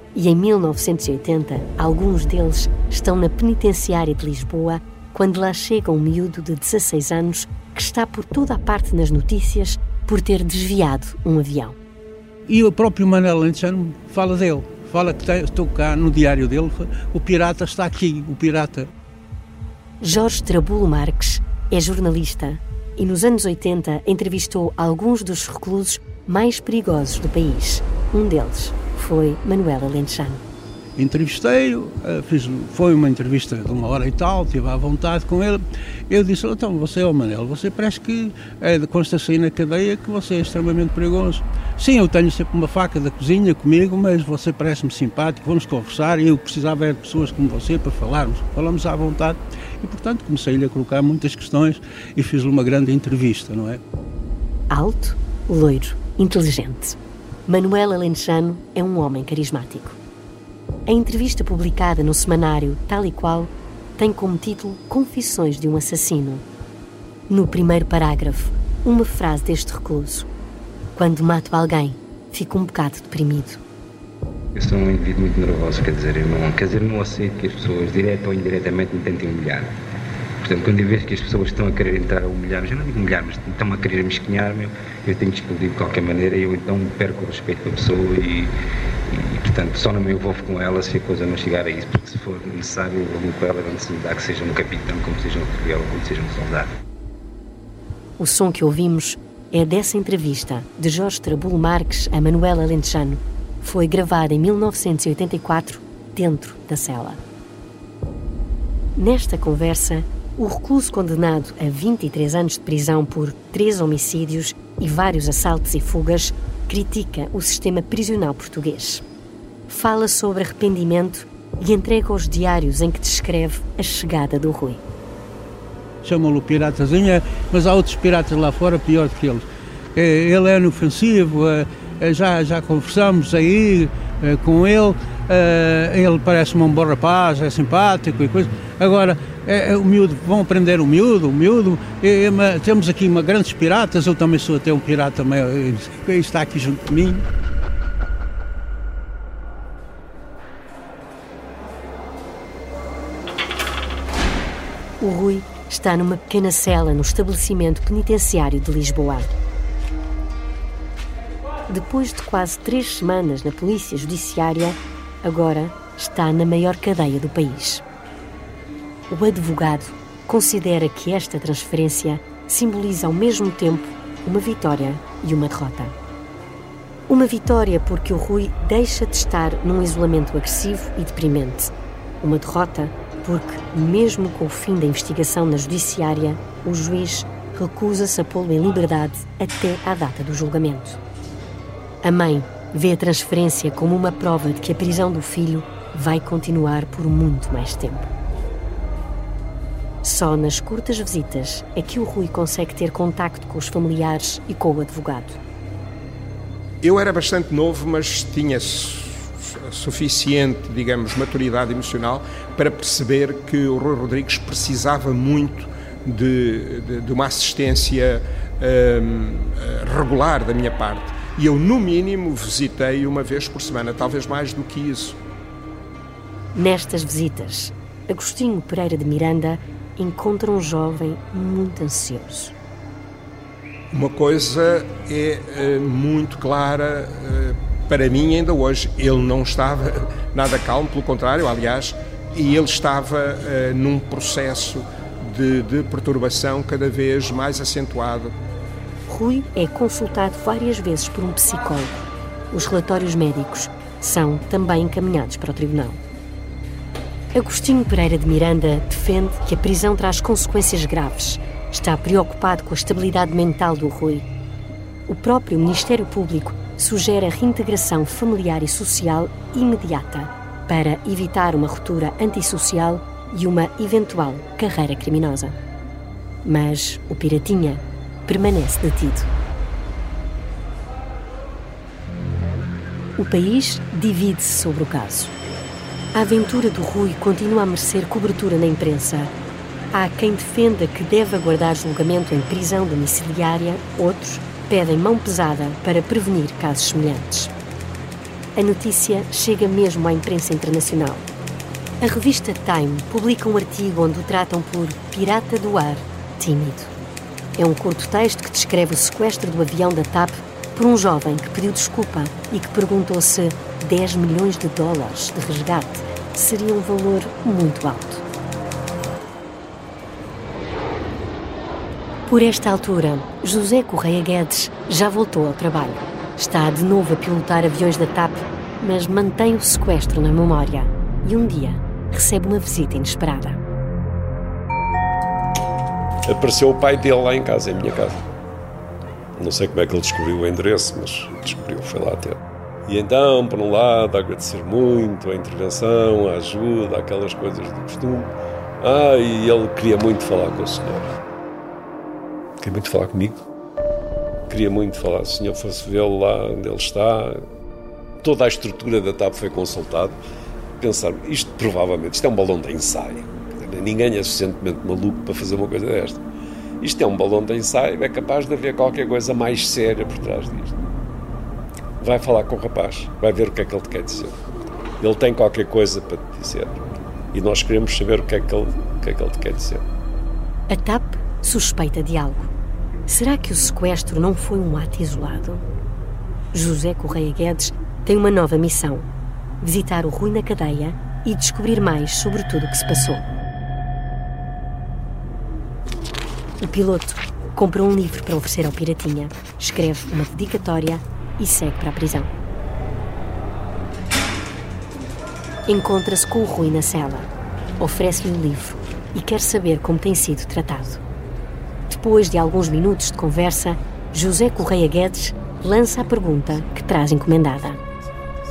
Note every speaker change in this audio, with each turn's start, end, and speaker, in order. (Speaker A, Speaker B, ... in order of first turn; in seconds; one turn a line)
Speaker A: 0.1-11.8
Speaker B: 12.5-18.9
Speaker A: 20.0-30.4
Speaker B: 31.0-53.8
Speaker A: 54.7-60.0
Speaker A: 60.9-66.4
Speaker A: 67.3-70.3
Speaker A: 71.0-73.6
Speaker C: 74.5-79.8
Speaker C: 80.4-88.5
Speaker C: 89.1-96.8
Speaker A: 98.2-107.2
Speaker A: 109.0-119.0
Speaker A: 119.7-124.8
Speaker B: 126.0-147.2
Speaker A: 155.0-159.3
Speaker A: 161.7-167.8
Speaker A: 169.1-175.9
Speaker A: 177.1-191.0
Speaker A: 192.0-198.1
Speaker A: 200.0-205.4
Speaker D: 206.8-225.2
Speaker A: 226.5-232.5
Speaker D: 233.9-248.3
Speaker A: 249.1-256.0
Speaker A: 257.3-264.3
Speaker A: 265.1-275.6
Speaker A: 276.4-279.3
Speaker A: 283.2-285.3
Speaker A: 286.1-289.3
Speaker A: 289.9-297.5
Speaker A: 298.6-301.3
Speaker A: 302.0-306.9
Speaker A: 307.6-318.2
Speaker A: 322.3-333.6
Speaker E: 336.3-338.2
Speaker E: 339.4-351.2
Speaker E: 352.6-353.4
Speaker E: 354.5-357.4
Speaker E: 358.2-360.2
Speaker E: 360.8-366.2
Speaker E: 366.8-370.8
Speaker E: 372.0-374.3
Speaker E: 375.0-376.8
Speaker E: 377.3-379.8
Speaker A: 380.7-382.5
Speaker A: 383.1-385.6
Speaker A: 386.5-389.1
Speaker A: 389.6-393.3
Speaker A: 396.6-402.3
Speaker A: 405.7-407.3
Speaker A: 407.8-411.0
Speaker A: 411.9-417.8